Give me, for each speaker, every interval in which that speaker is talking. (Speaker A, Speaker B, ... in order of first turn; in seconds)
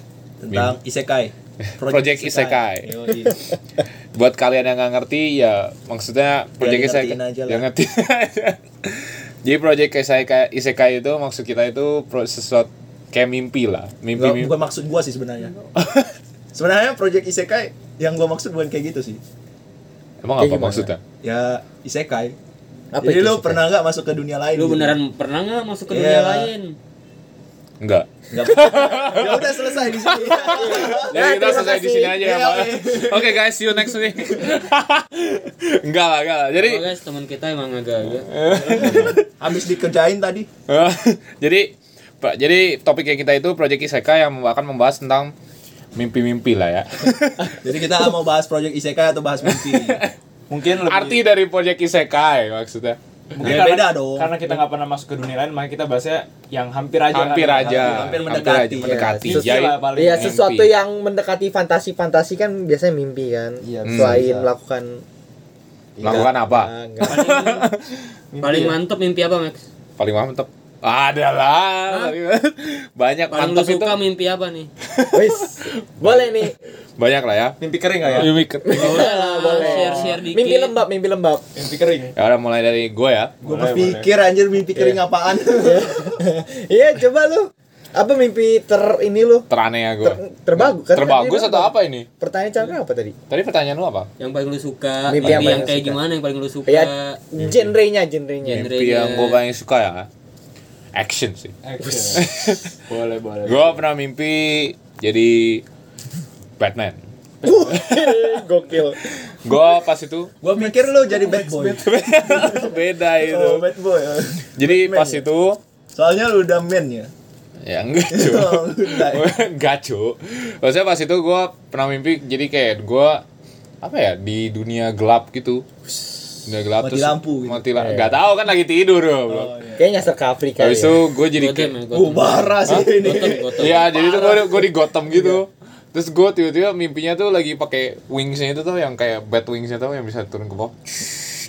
Speaker A: 0.4-3.4, 6.6-7.6, 14.2-15.5, 16.5-19.2, 21.2-22.4, 23.0-25.0, 25.9-26.5, 28.3-31.4, 32.2-33.4, 38.7-40.5, 47.6-50.0, 53.4-54.4, 57.6-59.1, 83.4-86.1, 110.4-114.6, 115.9-117.1, 118.1-119.3, 126.8-127.7, 129.3-129.8, 131.9-134.2
Speaker B: 1.8-2.9, 4.1-14.5, 15.8-16.1, 20.2-21.0, 27.8-36.8, 38.2-39.2, 40.7-45.3, 45.9-47.6, 49.5-50.1, 50.8-53.0, 57.1-60.7, 63.8-64.2, 66.0-67.8, 70.0-74.0, 74.9-77.6, 78.1-79.2, 82.1-83.3, 89.5-92.1, 93.3-94.1, 95.2-95.6, 97.4-97.7, 98.4-100.1, 100.9-101.5, 102.1-102.8, 103.5-105.6, 106.6-107.0, 107.9-108.4, 109.4-110.3, 111.8-113.7, 114.6-115.6, 117.6-123.2, 123.8-125.7, 126.5-129.5, 130.6-131.8, 132.7-132.9, 133.6-141.2
Speaker C: 20.4-20.9, 22.9-23.6, 30.6-32.2, 58.8-65.0, 66.0-67.2, 75.1-76.5, 78.6-81.4, 84.8-89.5, 90.0-93.1, 95.1-96.0, 96.7-98.7, 101.8-102.2, 107.4-109.0, 110.6-112.5, 114.7-115.2, 127.7-128.1, 129.8-131.0, 133.9-135.4
Speaker D: 24.5-26.8, 36.6-38.3, 67.0-67.7, 68.4-69.6, 71.9-72.1, 73.3-74.7, 78.7-80.8, 94.2-97.2, 98.4-99.4, 131.3-133.9
Speaker E: 50.5-51.2, 53.3-58.3, 59.2-60.4, 63.6-64.5, 68.3-68.8, 77.6-78.3, 81.5-82.2, 83.4-84.1, 101.6-102.3, 102.9-103.8, 107.4-107.8